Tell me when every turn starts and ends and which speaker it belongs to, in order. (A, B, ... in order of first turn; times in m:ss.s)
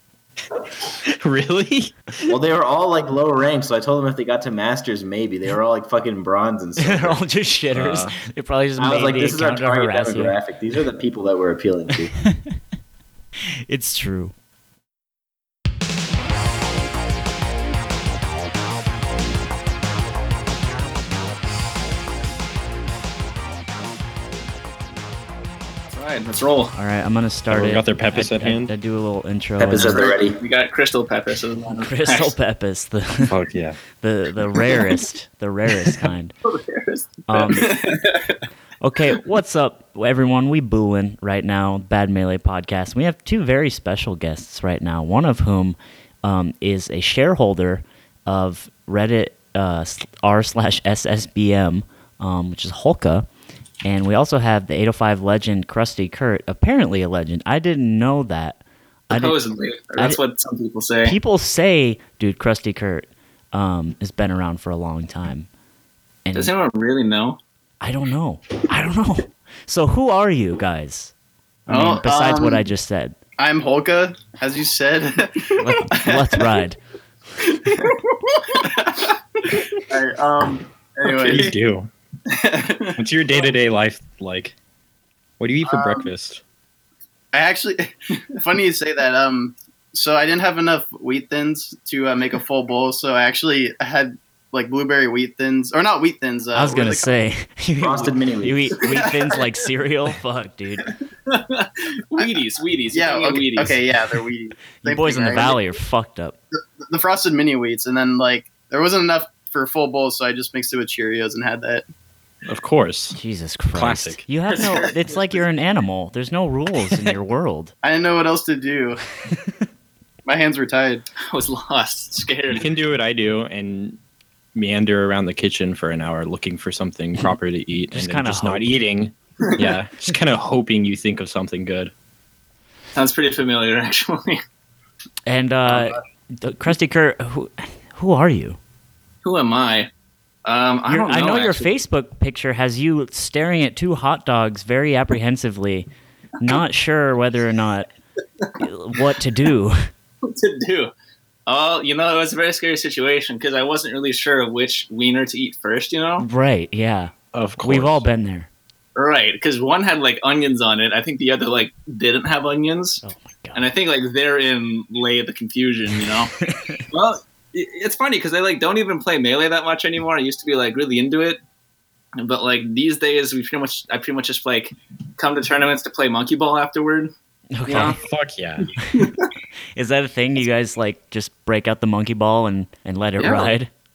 0:01.0-0:02.0 A
0:02.3-0:07.2 B
0:06.8-0:10.4 C
0:07.7-0:08.2 A
0:08.8-0:12.1 B
0:13.7-0:14.3 C
0:25.9-0:26.8 D
0:26.8-0:30.0 C
0:27.5-0:28.7 A
0:29.6-0:30.4 B
0:29.8-0:32.3 D
0:31.8-0:33.3 C
0:33.3-0:33.8 A
0:34.0-0:36.4 C
0:37.3-0:37.8 C
0:37.4-0:38.3 D
0:38.8-0:53.3 C
0:53.8-0:59.4 C
0:59.1-1:01.2 D
1:01.0-1:05.5 C
1:06.2-1:06.5 C
1:06.4-1:07.4 D
1:07.8-1:11.1 C
1:11.7-1:13.2 C
1:11.7-1:12.7 E
1:13.4-1:16.5 E
1:15.6-1:16.8 C
1:17.4-1:21.5 E
1:21.1-1:21.9 A
1:22.3-1:23.5 E
1:23.0-1:24.5 A
1:25.4-1:26.4 A
1:25.6-1:26.1 E
1:27.3-1:37.2 E
1:36.6-1:40.9 C
1:37.8-1:38.8 B
1:38.9-1:39.4 E
1:41.3-1:43.8 D
1:42.9-1:45.6 E
1:44.8-1:46.4 C
1:46.5-1:51.8 E
1:52.4-1:53.2 A
1:53.1-1:57.7 C
1:53.7-1:54.2 A
1:54.5-1:55.4 D
1:57.8-1:59.0 E
2:00.2-2:01.1 E
2:01.3-2:02.7 D
2:02.5-2:04.0 A
2:04.6-2:11.9 A
2:07.9-2:08.7 C
2:13.0-2:14.4 D
2:15.3-2:18.6 C
2:15.7-2:16.0 E
2:19.2-2:19.9 D
2:20.4-2:21.7 D
2:20.9-2:25.9 C
2:26.4-2:27.9 C
2:28.6-2:29.9 C
2:30.2-2:30.9 D
2:31.5-2:36.3 D
2:36.2-2:38.5 C
2:37.3-2:38.0 A
2:39.0-2:43.0 D
2:43.0-2:43.6 C
2:43.6-2:46.3 D
2:46.4-2:46.8 C
2:46.9-2:51.4 D
2:52.2-2:57.1 D
2:57.6-2:58.0 C
2:57.7-2:58.0 D
2:57.8-2:58.7 A
2:58.8-2:59.1 C
2:58.9-2:59.3 D
2:59.8-3:03.7 C
3:03.2-3:03.5 D